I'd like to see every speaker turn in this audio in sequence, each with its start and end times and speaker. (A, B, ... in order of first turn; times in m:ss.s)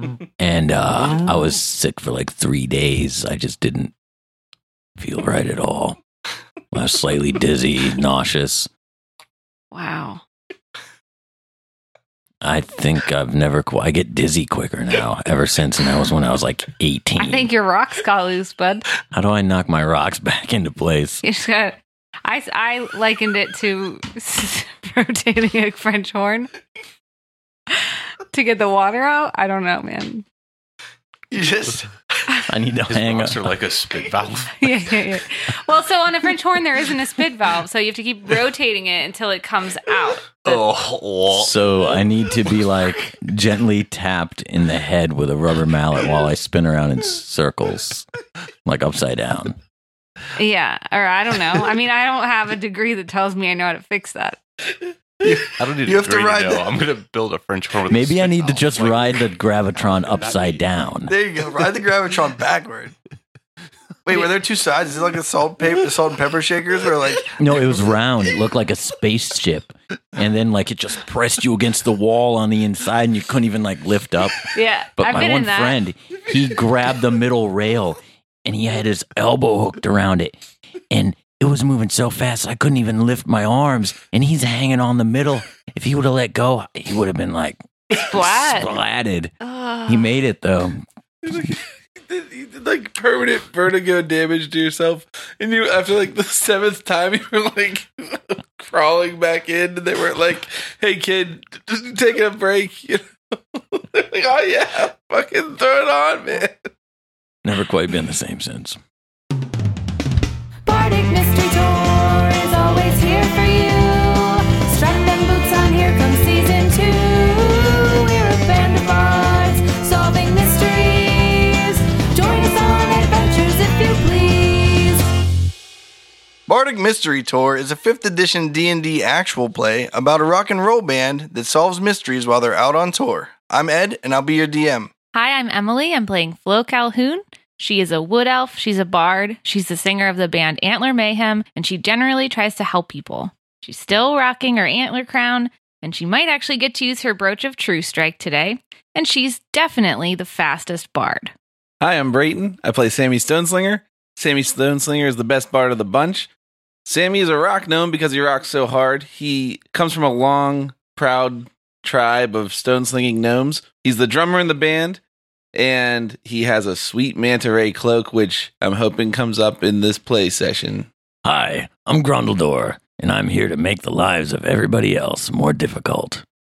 0:00.4-0:03.9 A
0:05.0-0:06.0 A
0:06.7-0:08.7 A
0:09.7-0:10.2 B
0:12.4-0:17.5 A
0:17.2-0:18.8 B
0:19.1-0:21.2 A
0:21.2-0:26.5 B
0:27.7-0:30.2 B
0:31.3-0:31.9 C
0:32.5-0:33.5 A
0:32.9-0:34.7 D
0:34.6-0:40.6 B
0:40.4-0:41.5 D
0:41.3-0:48.0 A
0:48.6-0:49.6 A
0:50.4-0:54.4 B
0:55.2-0:56.6 C
0:55.4-0:59.1 D
0:57.9-1:01.1 A
0:59.8-1:00.6 D
1:01.1-1:02.9 C
1:04.0-1:07.4 C
1:07.4-1:20.4 A
1:14.5-1:15.8 B
1:20.9-1:29.3 A
1:28.0-1:28.7 B
1:29.4-1:30.1 B
1:29.9-1:30.8 A
1:31.3-1:46.7 E
1:47.4-1:48.8 A
1:50.6-2:05.0 F
2:06.5-2:14.9 C
2:15.1-2:31.3 B
2:31.8-2:36.3 E
2:36.8-2:45.0 E
2:45.5-2:50.9 E
2:51.2-2:56.2 A